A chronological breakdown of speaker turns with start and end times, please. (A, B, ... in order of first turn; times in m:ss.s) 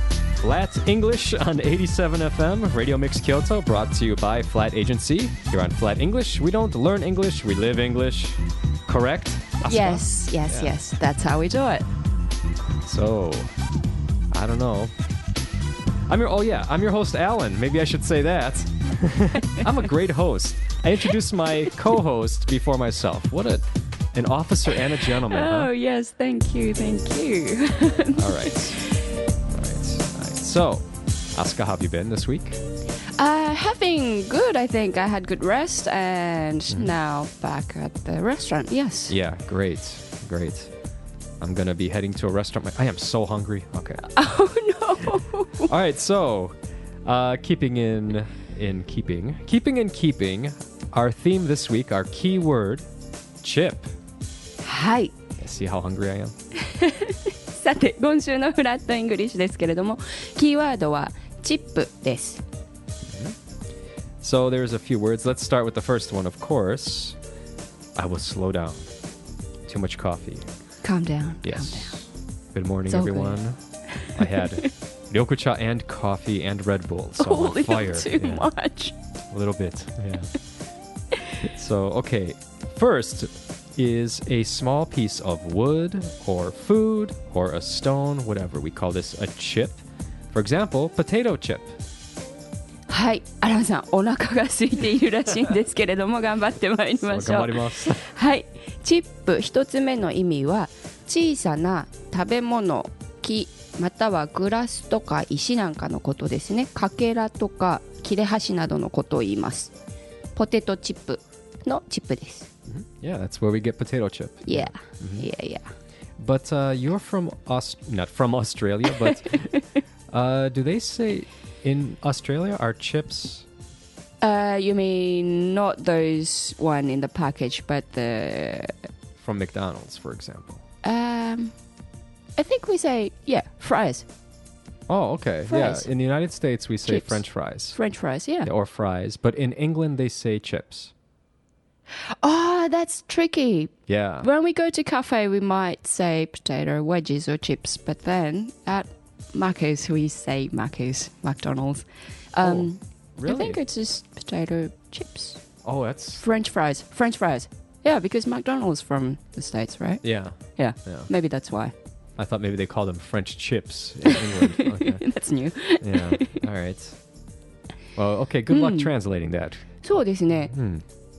0:00.4-0:10.8 A
0:09.6-0:11.9 B
0:12.8-0:13.5 A
0:14.3-0:14.9 A
0:16.1-0:25.7 A
0:25.1-0:28.9 B
0:28.2-0:28.8 A
0:29.5-0:32.6 A
0:33.2-0:39.2 B
0:36.7-0:37.0 A
0:39.1-0:40.7 A
0:41.4-0:44.1 A
0:44.1-0:45.7 B
0:45.6-0:52.8 A
0:53.4-0:53.9 A
0:54.6-0:55.1 B
0:55.4-0:56.3 A
0:56.6-1:02.4 B
1:03.1-1:03.4 A
1:04.2-1:07.2 A
1:08.0-1:08.9 A
1:09.7-1:10.5 A
1:10.8-1:12.0 B
1:11.4-1:18.5 A
1:12.9-1:13.4 B
1:13.9-1:14.6 B
1:17.2-1:18.9 B
1:19.3-1:20.3 A
1:21.4-1:31.8 A
1:32.9-1:49.7 B
1:37.0-1:38.0 A
1:50.4-1:52.5 B
1:52.7-1:55.3 A
1:54.4-1:55.7 B
1:56.2-1:59.5 A
2:00.1-2:03.5 A
2:04.2-2:08.9 B
2:09.2-2:10.6 A
2:10.8-2:11.5 B
2:12.4-2:14.1 B
2:14.9-2:17.8 A
2:15.5-2:15.9 B
2:16.9-2:18.5 B
2:18.4-2:20.9 A
2:22.0-2:35.4 B
2:23.9-2:24.3 A
2:32.4-2:33.6 A
2:35.6-2:36.2 A
2:36.2-2:41.7 B
2:40.0-2:41.1 A
2:42.2-2:45.0 A
2:44.0-2:46.4 B
2:45.8-2:47.0 A
2:48.0-2:49.8 A
2:48.5-2:48.9 B
2:49.8-2:50.5 B
2:50.5-2:50.8 A